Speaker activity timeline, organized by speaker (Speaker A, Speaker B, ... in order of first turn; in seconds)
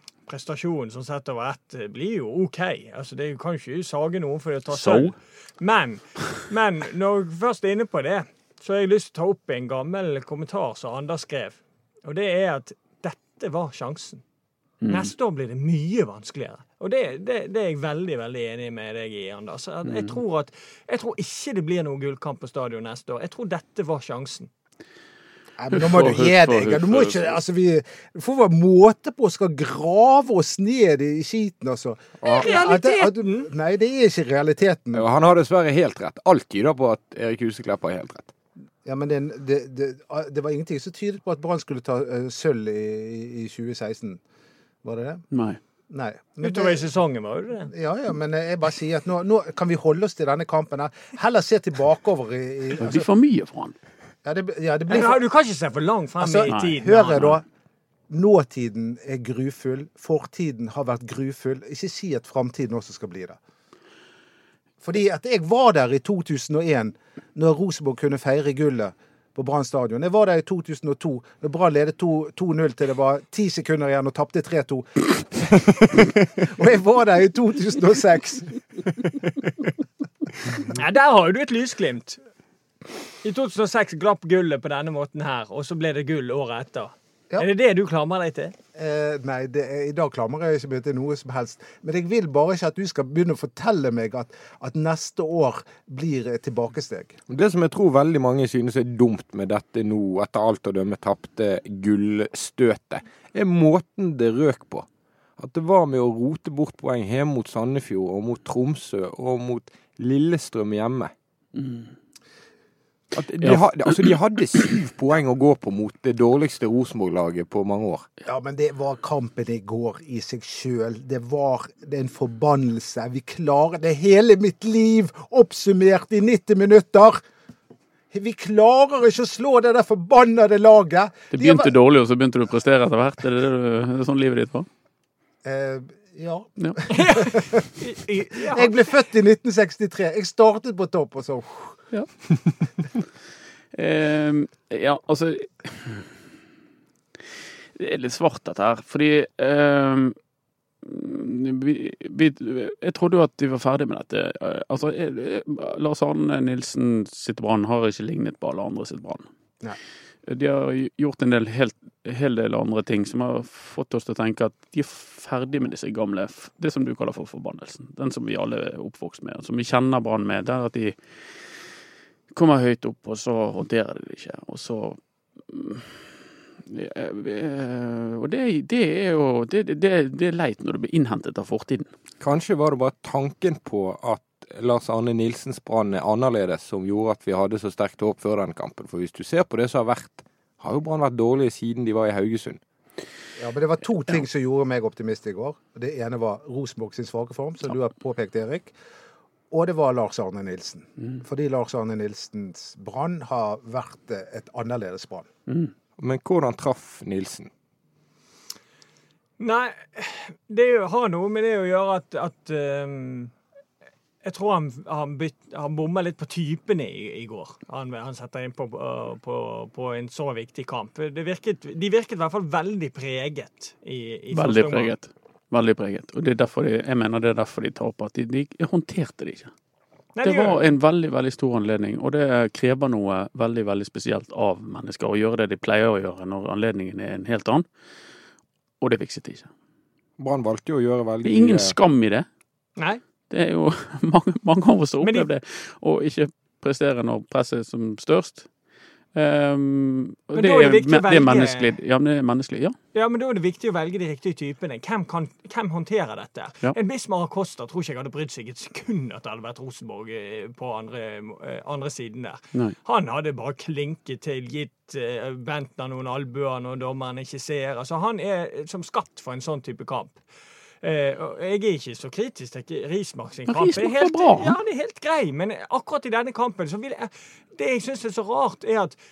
Speaker A: 0.3-14.2, 14.9-24.5, 32.2-33.5, 46.4-47.7, 54.9-57.4, 80.7-82.2, 83.2-88.5, 136.9-138.9, 209.4-213.3, 214.2-224.9, 230.2-230.7, 245.0-245.3, 250.3-251.7, 252.9-270.2, 270.8-279.0
Speaker B: 4.7-5.2, 14.8-15.1, 19.9-20.2, 25.7-27.3, 45.3-45.6, 52.8-53.8, 56.5-57.3, 111.5-111.9, 113.4-114.1, 131.3-134.7, 143.7-146.1, 147.8-150.2, 150.8-159.3, 160.3-171.0, 172.3-175.0, 175.5-181.9, 205.5-205.7, 224.3-229.5, 230.2-237.7, 238.8-239.5, 241.2-242.3, 243.3-248.5, 249.1-252.8, 273.5-274.6
Speaker C: 25.6-35.1, 38.8-44.2, 44.8-45.2, 45.9-46.9, 47.7-53.1, 54.2-55.2, 56.2-57.4, 58.1-63.4, 64.8-78.8, 88.8-97.2, 118.2-127.2, 128.1-131.7, 135.4-137.8, 138.3-141.8, 193.4-198.8, 199.5-205.3
Speaker D: 32.2-32.5, 34.9-38.3, 97.3-104.9, 105.4-111.1, 113.1-118.1, 182.2-192.6, 206.0-207.5, 240.2-241.8